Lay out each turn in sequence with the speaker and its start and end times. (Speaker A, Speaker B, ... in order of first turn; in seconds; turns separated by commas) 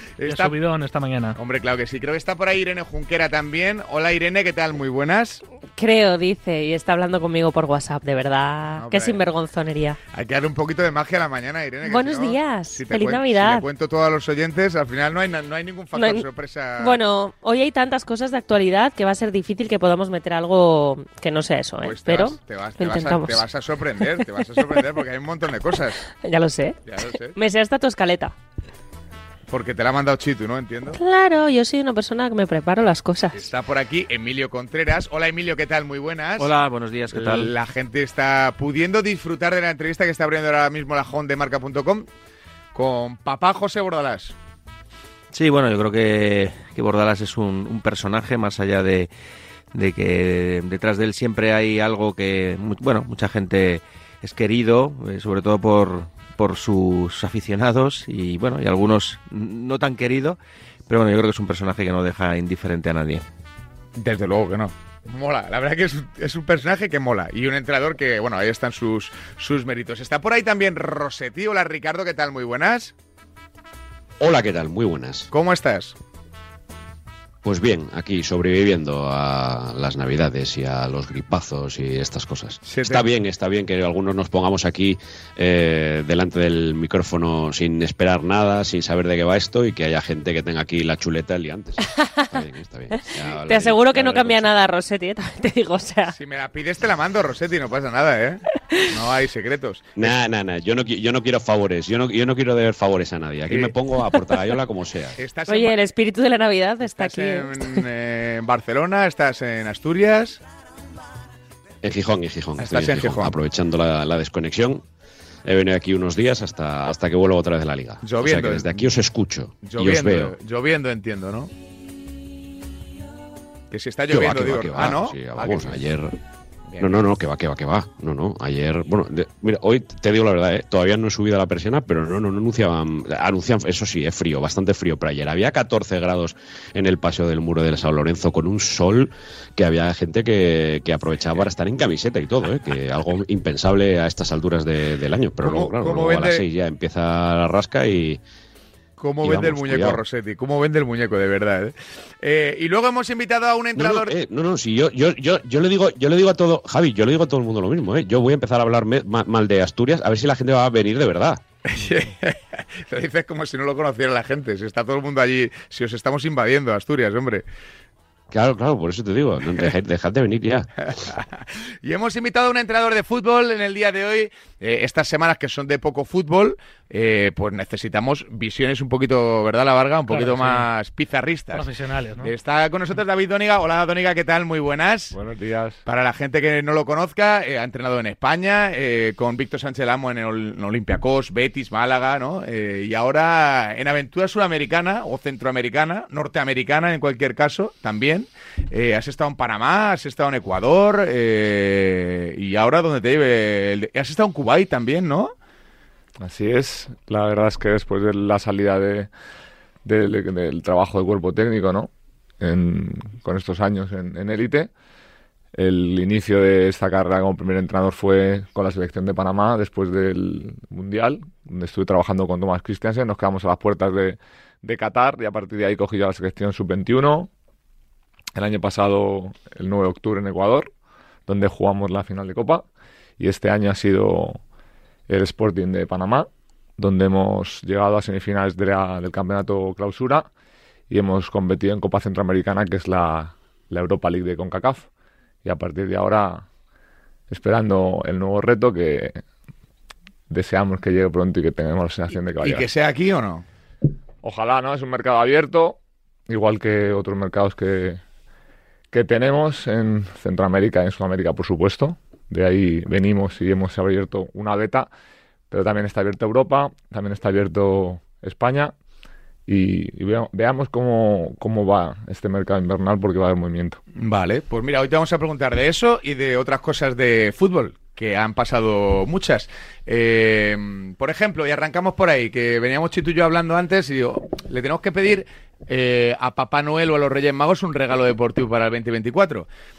Speaker A: 0.2-0.6, Speaker B: 0.2-1.4, Speaker A: 1.4-5.4, Speaker C: 5.8-10.0, Speaker A: 8.8-9.2, Speaker A: 10.1-17.0, Speaker C: 11.8-13.6, Speaker C: 15.9-16.2, Speaker C: 16.8-23.4, Speaker A: 21.8-26.0, Speaker C: 26.1-26.8, Speaker A: 26.9-27.3, Speaker C: 27.3-28.3, Speaker A: 29.5-31.0, Speaker C: 30.9-33.4, Speaker A: 33.3-36.5, Speaker D: 36.4-37.5, Speaker A: 37.1-42.1, Speaker A: 42.7-44.3, Speaker D: 45.3-49.1, Speaker D: 49.7-63.2, Speaker A: 64.0-72.9, Speaker E: 74.2-75.3, Speaker A: 75.3-76.0, Speaker E: 77.4-94.5, Speaker A: 82.6-83.0, Speaker C: 91.8-92.3, Speaker C: 92.9-96.1, Speaker A: 96.1-100.0, Speaker E: 100.0-105.2, Speaker A: 105.2-105.8, Speaker C: 105.5-107.8, Speaker A: 106.8-110.4, Speaker E: 111.8-114.8, Speaker A: 112.6-113.3, Speaker E: 115.4-120.3, Speaker A: 118.0-118.9, Speaker A: 119.6-121.5, Speaker A: 123.7-125.8, Speaker E: 124.1-126.1, Speaker A: 126.7-127.0, Speaker E: 126.8-148.2, Speaker A: 145.4-146.4, Speaker A: 149.0-154.1, Speaker E: 149.2-150.0, Speaker E: 153.8-161.4, Speaker A: 161.7-167.4, Speaker E: 168.3-170.7, Speaker A: 170.9-181.6, Speaker B: 180.1-180.7, Speaker B: 181.5-182.3, Speaker A: 182.2-185.1, Speaker F: 185.1-185.8, Speaker A: 185.8-205.3, Speaker F: 206.2-209.1, Speaker F: 209.8-214.7, Speaker F: 215.5-227.3, Speaker F: 228.3-230.7, Speaker F: 231.3-232.7, Speaker F: 233.2-234.4, Speaker F: 235.1-240.3, Speaker F: 240.9-244.9, Speaker F: 245.4-246.4, Speaker F: 247.3-249.2, Speaker F: 250.3-252.7, Speaker A: 252.4-253.4, Speaker F: 254.2-258.0, Speaker F: 258.9-264.9, Speaker F: 265.5-268.7, Speaker F: 269.5-273.8, Speaker A: 273.9-289.4